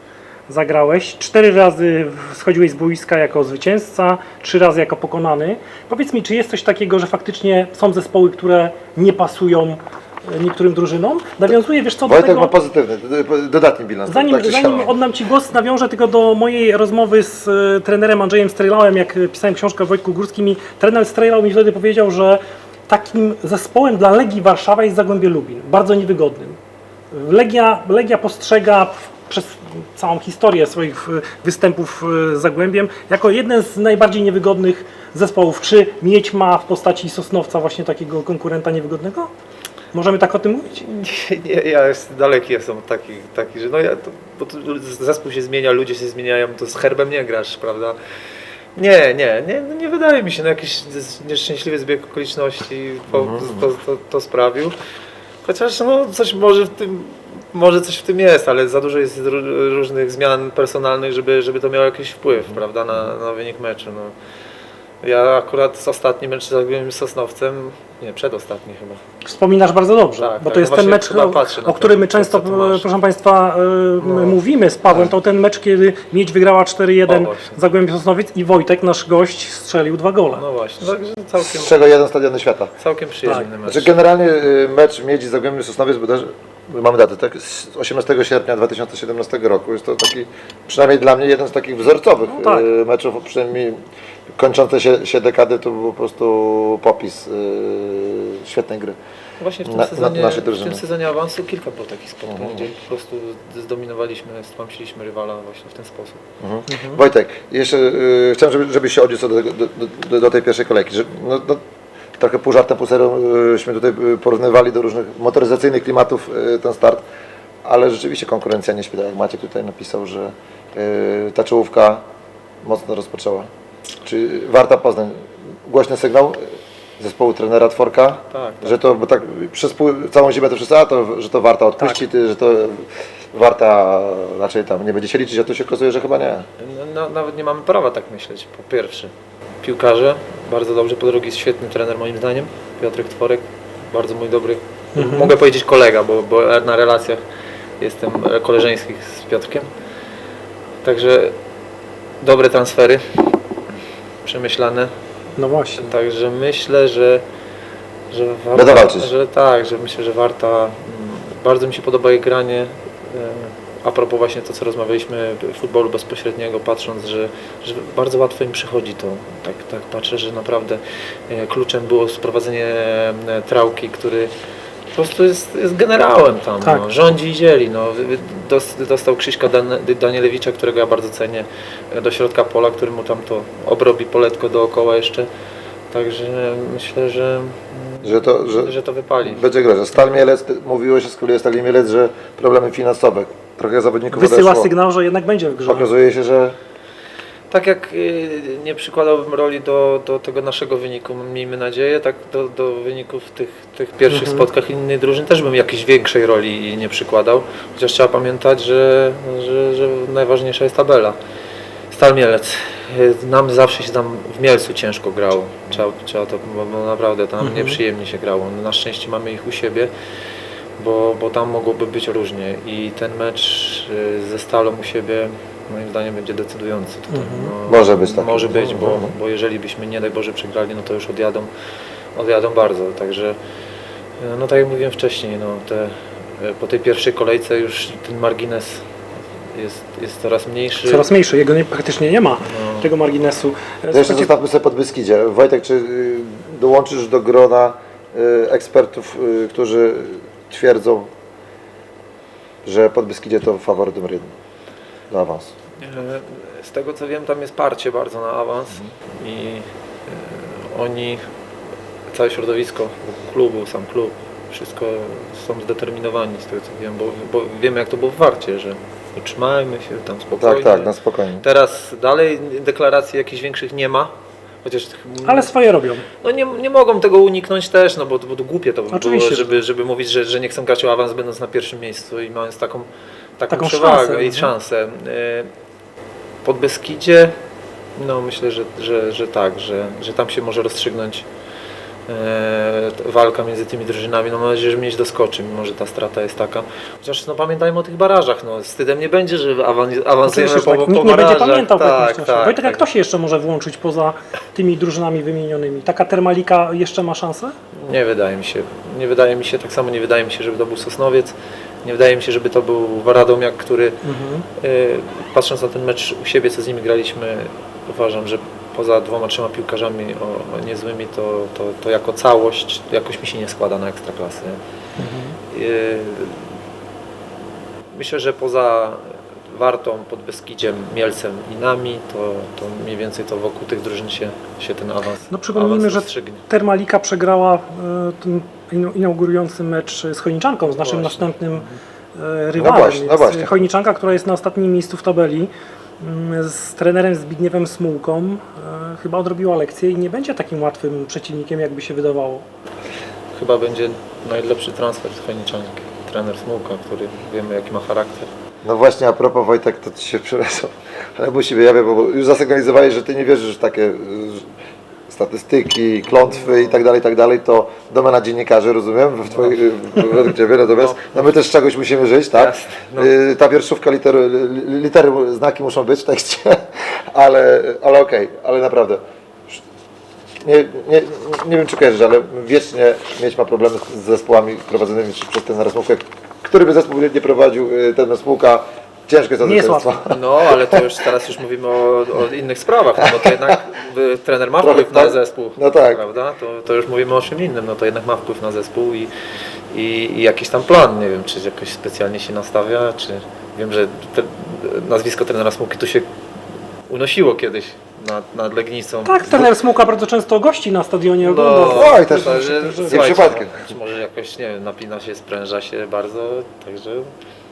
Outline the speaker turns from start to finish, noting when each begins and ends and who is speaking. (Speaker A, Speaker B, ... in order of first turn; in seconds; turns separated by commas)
Speaker A: 0.5-12.5, Speaker B: 12.1-15.0, Speaker A: 14.1-26.6, Speaker A: 27.1-39.3, Speaker A: 39.9-40.8, Speaker C: 40.7-48.0, Speaker C: 48.8-54.8, Speaker B: 53.1-53.7, Speaker C: 55.4-64.2, Speaker C: 65.0-69.0, Speaker A: 69.2-80.4, Speaker C: 70.2-72.9, Speaker C: 74.0-74.4, Speaker C: 77.1-77.6, Speaker C: 80.3-81.8, Speaker B: 81.4-82.7, Speaker C: 82.8-83.9, Speaker B: 83.7-99.0, Speaker A: 92.3-92.7, Speaker C: 99.4-106.2, Speaker B: 99.7-100.8, Speaker B: 102.3-102.7, Speaker B: 106.4-111.6, Speaker A: 106.7-107.0, Speaker B: 112.2-117.0, Speaker B: 117.7-122.0, Speaker B: 122.6-123.5, Speaker B: 124.0-136.5, Speaker C: 128.3-128.7, Speaker C: 136.6-147.2, Speaker A: 145.0-145.3, Speaker C: 147.8-149.7, Speaker C: 150.8-151.4, Speaker C: 152.2-153.3, Speaker C: 154.2-154.9, Speaker A: 155.4-155.8, Speaker C: 155.8-157.2, Speaker C: 158.1-174.3, Speaker B: 158.5-159.1, Speaker C: 174.9-185.3, Speaker A: 176.6-176.9, Speaker C: 185.9-189.4, Speaker B: 188.0-194.7, Speaker A: 194.1-195.9, Speaker B: 195.6-196.6, Speaker C: 197.5-211.2, Speaker A: 204.1-204.5, Speaker C: 211.9-219.9, Speaker A: 217.4-217.8, Speaker C: 220.8-231.5, Speaker A: 227.1-227.5, Speaker B: 227.7-229.1, Speaker C: 232.2-233.4, Speaker C: 234.2-238.9, Speaker C: 239.4-241.1, Speaker A: 240.9-244.3, Speaker C: 242.4-242.9, Speaker B: 243.9-251.1, Speaker B: 252.7-254.3, Speaker B: 255.1-255.5, Speaker C: 255.8-261.2, Speaker C: 262.1-274.1, Speaker B: 270.4-271.4, Speaker C: 274.6-275.5, Speaker A: 275.2-276.1, Speaker C: 276.2-282.9, Speaker A: 278.9-279.5, Speaker C: 283.4-285.5, Speaker A: 283.5-284.5, Speaker C: 286.4-287.4, Speaker C: 288.0-291.3, Speaker C: 292.1-302.9, Speaker A: 300.3-307.6, Speaker C: 307.7-314.0, Speaker A: 314.0-314.5, Speaker C: 314.6-324.6, Speaker A: 325.0-325.4, Speaker C: 325.5-326.5, Speaker C: 327.9-336.4, Speaker A: 335.3-352.4, Speaker C: 340.7-341.8, Speaker B: 342.6-343.7, Speaker C: 353.3-358.3, Speaker B: 358.6-364.5, Speaker B: 365.1-379.6, Speaker C: 366.3-366.7, Speaker C: 369.3-369.6, Speaker C: 370.7-371.2, Speaker C: 372.4-373.1, Speaker B: 380.4-390.8, Speaker A: 389.4-390.0, Speaker C: 390.1-399.1, Speaker B: 393.1-393.6, Speaker B: 394.6-396.0, Speaker C: 399.7-406.1, Speaker C: 406.9-409.4, Speaker A: 409.1-413.2, Speaker C: 411.2-417.1, Speaker B: 411.6-413.6